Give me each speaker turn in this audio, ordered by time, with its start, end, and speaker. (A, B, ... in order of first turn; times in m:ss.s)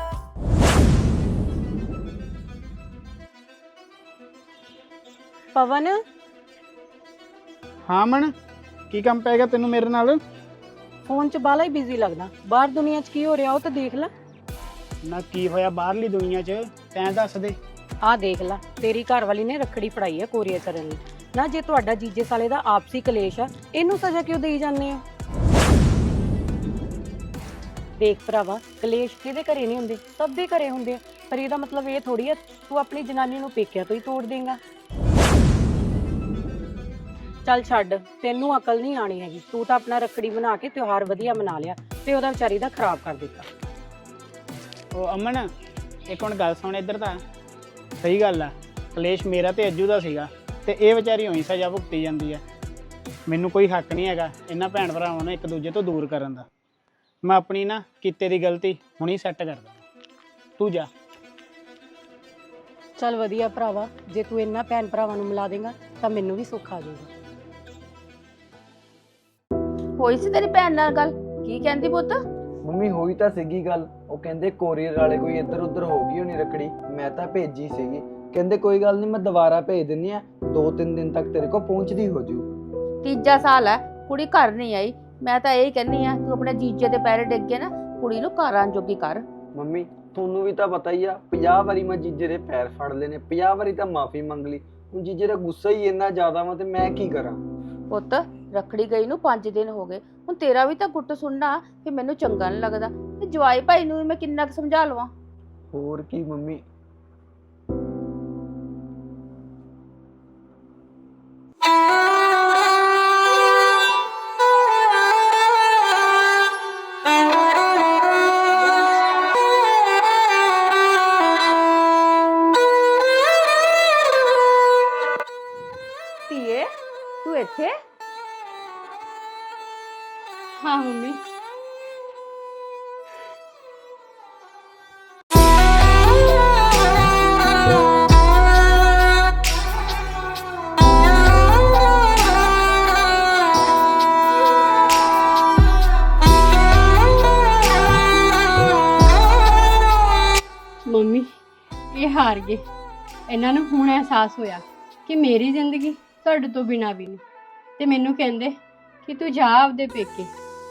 0:05.5-0:06.0 A
0:07.8-0:08.3 B
0:08.9-0:10.2 B
0:11.1-0:14.1 A
0:15.0-0:17.6 B
0:18.0-0:25.0 A
0:28.0-0:34.6 A
0:37.4-0:43.5 A
0:44.9-0:45.5 B
0:46.1-0:47.2 B
0:48.0-0:52.4 B
0:53.2-0:56.5 B
0:57.2-0:59.8 B
1:00.6-1:00.9 B
1:03.0-1:07.1 A
1:10.0-1:12.2 C
1:12.6-1:22.4 D
1:23.0-1:29.2 C
1:29.5-1:37.4 D
1:37.9-1:45.1 C
1:45.7-1:46.6 D
2:06.3-2:06.7 C
2:07.2-2:07.8 C
2:10.6-2:11.2 E
2:30.8-2:31.3 E
2:31.9-2:32.6 E
2:33.3-2:37.2 E
2:37.8-2:40.3 E